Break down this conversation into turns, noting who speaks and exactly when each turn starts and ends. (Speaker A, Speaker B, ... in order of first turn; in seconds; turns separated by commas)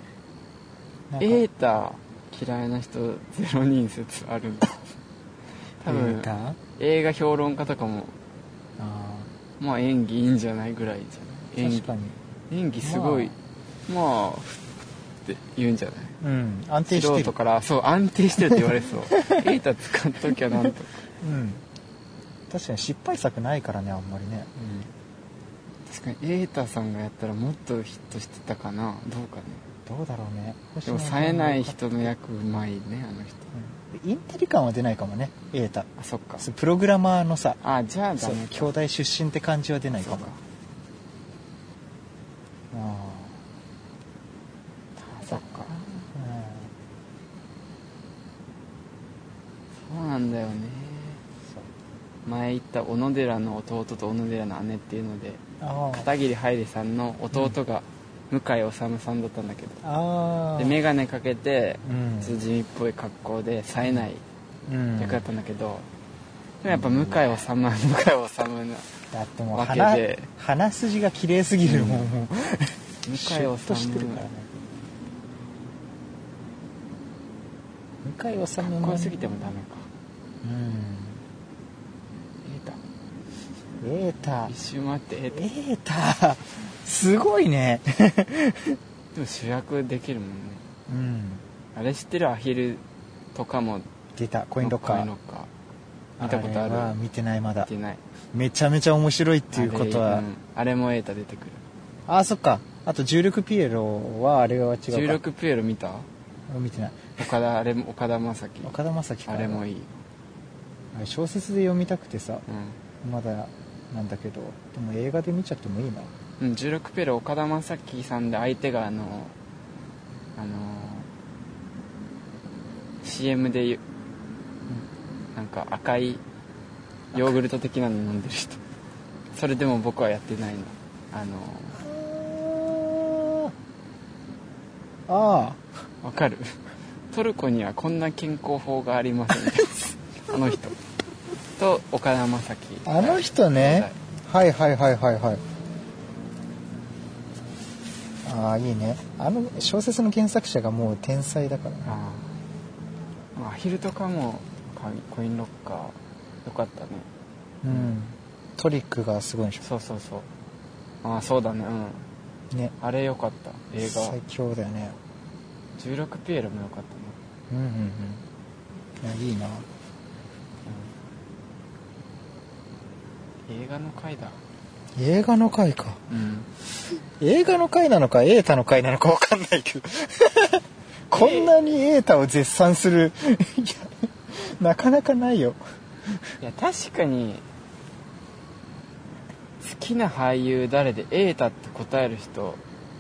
Speaker A: 1.1-1.4, Speaker B: 1.2-4.8, Speaker B: 5.8-8.1, Speaker A: 5.9-6.6, Speaker A: 8.8-9.3, Speaker B: 9.6-11.9, Speaker A: 11.6-12.2, Speaker B: 12.5-13.3, Speaker A: 12.8-13.3, Speaker B: 13.9-14.6, Speaker B: 15.2-16.2, Speaker A: 16.2-17.3, Speaker B: 16.9-20.9, Speaker A: 21.2-21.6, Speaker A: 22.5-24.5, Speaker B: 24.6-24.9, Speaker B: 25.9-29.7, Speaker A: 29.9-32.1, Speaker B: 30.9-33.5, Speaker A: 33.5-35.9, Speaker B: 36.0-36.5, Speaker A: 36.4-37.6, Speaker B: 37.6-38.7, Speaker A: 38.2-40.3, Speaker B: 39.9-40.4, Speaker A: 42.7-43.4, Speaker B: 45.0-45.9, Speaker A: 45.3-46.7, Speaker B: 49.8-51.2, Speaker B: 52.3-59.8, Speaker A: 55.6-56.1, Speaker A: 59.8-60.8, Speaker B: 60.6-64.2, Speaker A: 61.9-62.4, Speaker A: 64.7-65.3, Speaker B: 65.0-65.9, Speaker B: 66.6-68.9, Speaker A: 66.7-67.3, Speaker A: 69.1-74.5, Speaker B: 69.5-70.3, Speaker B: 71.6-72.1, Speaker B: 73.0-74.3, Speaker A: 78.0-79.2, Speaker B: 78.6-79.9, Speaker A: 80.4-81.2, Speaker B: 82.4-82.8, Speaker A: 83.8-84.5, Speaker B: 84.5-85.4, Speaker A: 85.3-88.8, Speaker B: 89.2-90.6, Speaker A: 90.9-91.4, Speaker B: 91.8-92.8, Speaker B: 93.3-93.9, Speaker A: 94.2-95.1, Speaker B: 94.6-95.5, Speaker A: 96.2-97.7, Speaker B: 96.2-96.9, Speaker B: 97.6-98.0, Speaker A: 98.3-100.3, Speaker B: 99.5-101.6, Speaker A: 102.1-105.2, Speaker B: 104.9-106.1, Speaker A: 106.5-107.2, Speaker B: 107.2-108.8, Speaker A: 108.6-109.6, Speaker B: 109.3-110.0, Speaker A: 110.9-112.4, Speaker B: 112.5-112.8, Speaker A: 113.0-116.1, Speaker B: 116.4-119.3, Speaker B: 120.4-121.1, Speaker B: 123.0-123.8, Speaker B: 125.3-126.2, Speaker B: 127.1-128.6, Speaker B: 129.3-131.9, Speaker A: 131.8-133.5, Speaker A: 135.1-135.6, Speaker B: 136.0-140.8, Speaker B: 141.6-144.0, Speaker A: 142.8-145.4, Speaker A: 148.2-151.9, Speaker B: 151.9-152.3, Speaker B: 153.3-157.1, Speaker A: 157.6-159.6, Speaker B: 157.7-157.9, Speaker B: 159.6-160.3, Speaker B: 161.0-162.1, Speaker B: 162.8-164.2, Speaker A: 163.8-165.0, Speaker B: 165.8-167.2, Speaker A: 167.5-168.2, Speaker A: 169.0-169.7, Speaker B: 170.7-170.9, Speaker B: 173.5-174.4, Speaker A: 175.0-176.0, Speaker B: 176.1-176.5, Speaker A: 177.2-185.6, Speaker B: 181.1-181.5, Speaker B: 186.4-187.4, Speaker B: 189.6-192.6